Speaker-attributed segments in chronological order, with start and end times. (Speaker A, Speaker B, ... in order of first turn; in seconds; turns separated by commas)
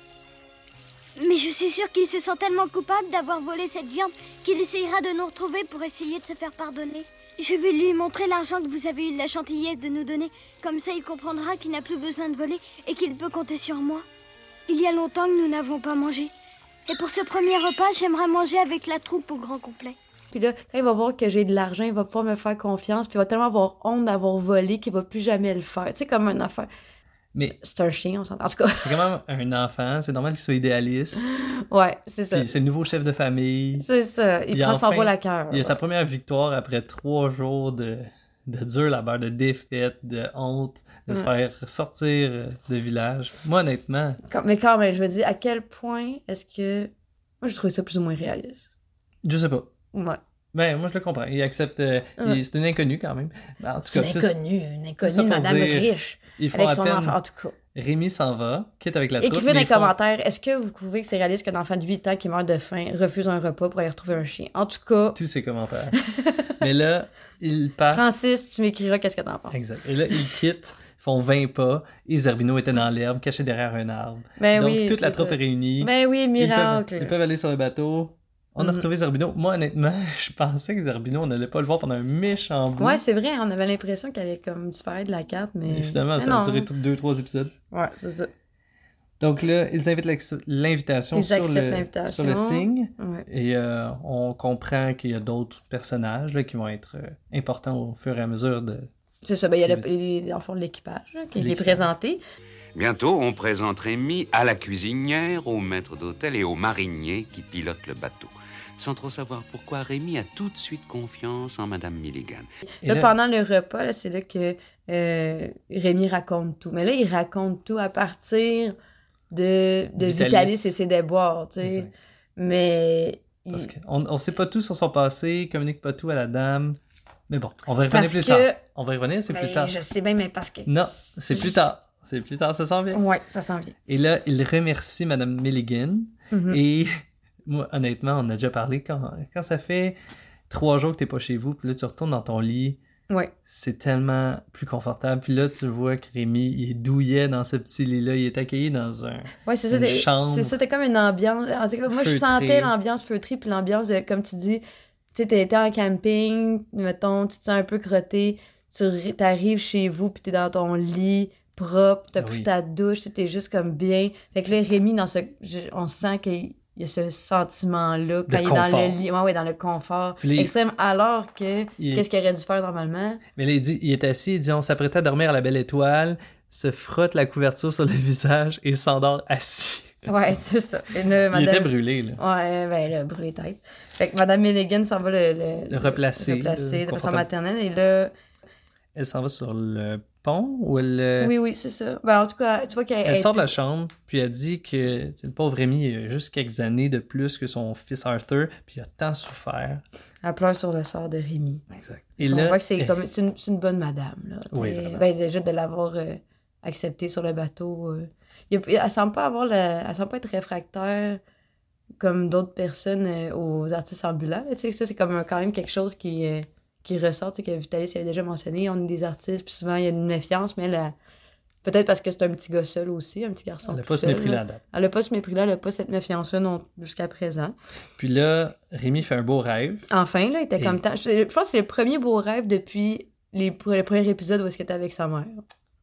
Speaker A: 1.2-14.1, Speaker A: 14.7-16.3, Speaker A: 16.9-20.0, Speaker B: 20.3-26.7, Speaker B: 27.6-29.0, Speaker C: 28.8-31.2, Speaker B: 31.4-32.5, Speaker C: 32.3-33.9, Speaker B: 33.8-35.8, Speaker C: 34.5-44.2, Speaker B: 44.2-48.6, Speaker C: 49.2-49.7, Speaker B: 49.9-50.2, Speaker C: 50.5-54.3, Speaker B: 53.9-57.6, Speaker C: 55.0-57.2, Speaker C: 57.7-59.9, Speaker B: 59.2-65.2, Speaker C: 65.2-66.0, Speaker B: 66.1-66.6, Speaker C: 66.6-68.0, Speaker B: 67.9-69.6, Speaker C: 69.5-83.0, Speaker B: 74.4-77.1, Speaker B: 78.6-78.9, Speaker B: 82.8-86.7, Speaker C: 85.7-87.5, Speaker B: 87.7-88.3, Speaker C: 89.2-98.9, Speaker B: 91.1-93.2, Speaker B: 99.2-102.2, Speaker C: 101.4-101.9, Speaker D: 102.8-112.5, Speaker C: 112.8-113.1, Speaker B: 112.8-118.8, Speaker B: 119.3-123.7, Speaker C: 120.0-120.8, Speaker C: 121.6-121.9, Speaker C: 123.5-126.8, Speaker C: 127.3-129.8, Speaker B: 127.9-128.6, Speaker B: 129.3-131.6, Speaker C: 130.7-133.0, Speaker B: 132.9-133.8, Speaker C: 133.9-136.9, Speaker B: 136.3-136.6, Speaker C: 137.4-140.0, Speaker C: 140.5-142.8, Speaker C: 143.5-150.6, Speaker B: 149.5-154.6, Speaker C: 151.9-152.7, Speaker B: 155.1-173.2, Speaker C: 162.2-162.5, Speaker C: 168.3-169.0, Speaker C: 170.2-170.5, Speaker C: 171.8-172.1, Speaker C: 173.4-180.1, Speaker B: 180.1-188.1, Speaker C: 181.3-182.2, Speaker C: 185.7-187.3, Speaker C: 188.9-191.3, Speaker B: 191.2-193.5, Speaker C: 193.1-199.8, Speaker B: 200.2-201.6, Speaker C: 201.7-203.0, Speaker B: 202.2-211.2, Speaker C: 204.5-205.1, Speaker B: 212.0-220.9, Speaker B: 221.6-227.6, Speaker C: 223.7-224.6, Speaker C: 228.0-229.9, Speaker B: 229.9-235.4